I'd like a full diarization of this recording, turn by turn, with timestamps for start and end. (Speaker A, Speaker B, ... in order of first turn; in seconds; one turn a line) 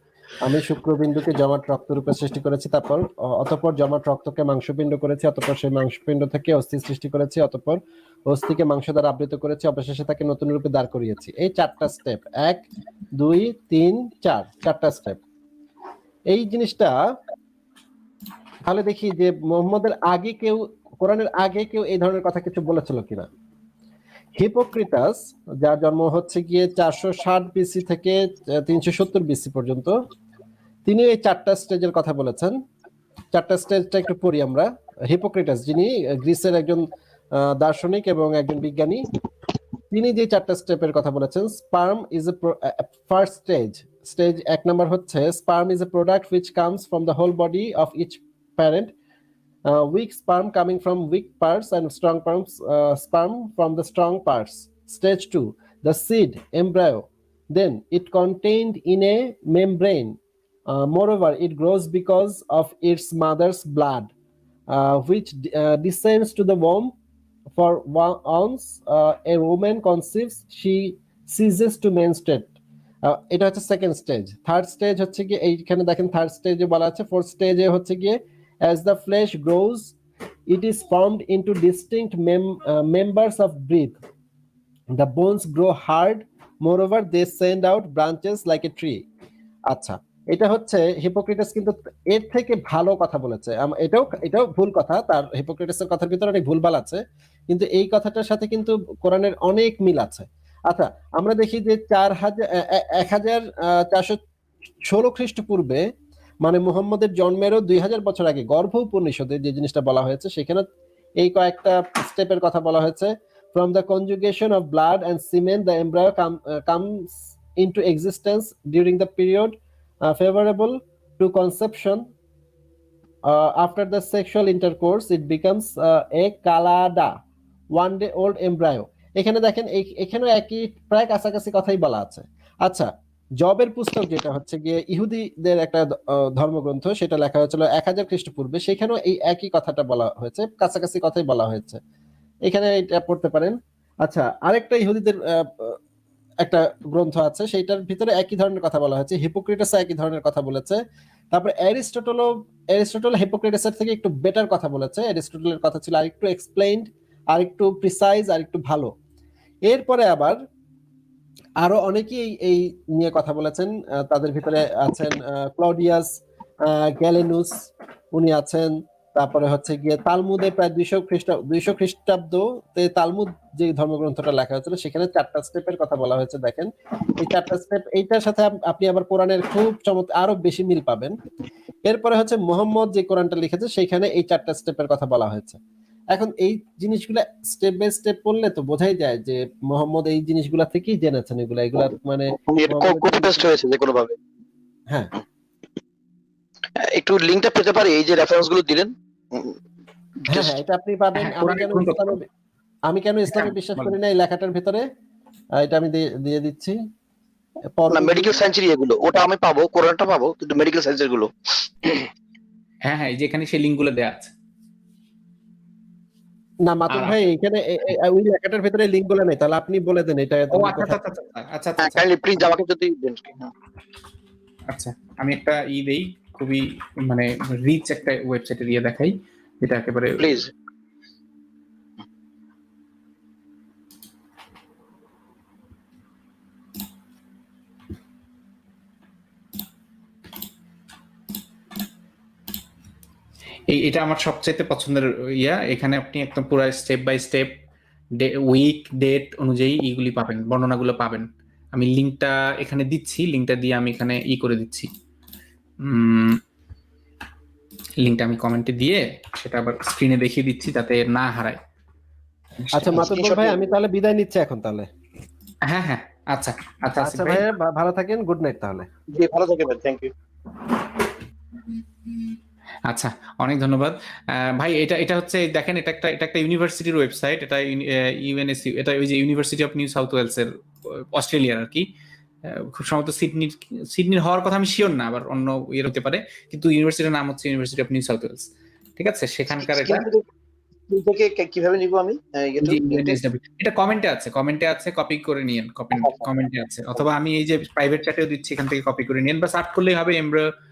Speaker A: 0.4-12.6
Speaker A: 13.2-15.2
Speaker A: 16.3-16.9
Speaker A: 18.6-23.3
Speaker A: 24.3-30.0
Speaker A: 30.9-32.6
Speaker A: 33.3-39.1
Speaker A: 39.9-48.9
Speaker A: 49.7-64.1
Speaker A: 64.7-66.9
Speaker A: 67.5-72.5
Speaker A: 73.0-79.9
Speaker A: 80.5-84.0
Speaker A: 84.9-89.0
Speaker A: 89.7-104.2
Speaker A: 104.9-105.8
Speaker A: 106.4-110.7
Speaker A: 111.2-122.0
Speaker A: 123.2-127.2
Speaker A: 127.7-132.9
Speaker A: 133.4-141.8
Speaker A: 142.4-145.8
Speaker A: 146.4-150.8
Speaker A: 151.3-158.9
Speaker A: 159.7-160.4
Speaker A: 161.6-181.1
Speaker A: 181.8-185.6
Speaker A: 186.1-193.4
Speaker B: 192.4-194.1
Speaker B: 196.8-199.6
Speaker A: 200.3-202.3
Speaker B: 200.3-200.5
Speaker C: 201.2-202.2
Speaker A: 202.9-204.8
Speaker C: 203.4-203.9
Speaker A: 205.6-206.8
Speaker A: 207.8-208.3
Speaker B: 207.9-212.1
Speaker C: 212.8-214.3
Speaker A: 216.6-221.0
Speaker C: 216.9-217.2
Speaker C: 220.5-222.0
Speaker B: 221.8-223.5
Speaker C: 224.7-230.3
Speaker B: 230.2-230.5
Speaker C: 243.7-247.5
Speaker C: 248.2-254.9
Speaker C: 255.8-256.4
Speaker C: 258.0-261.6
Speaker C: 262.6-263.1
Speaker A: 262.7-264.9
Speaker B: 263.0-263.7
Speaker C: 265.7-267.4
Speaker A: 267.0-268.9
Speaker B: 269.1-270.1
Speaker C: 272.9-281.8
Speaker C: 282.4-288.5
Speaker C: 289.0-290.1
Speaker B: 289.6-290.2
Speaker B: 290.9-293.1
Speaker C: 292.6-300.5
Speaker B: 296.0-296.2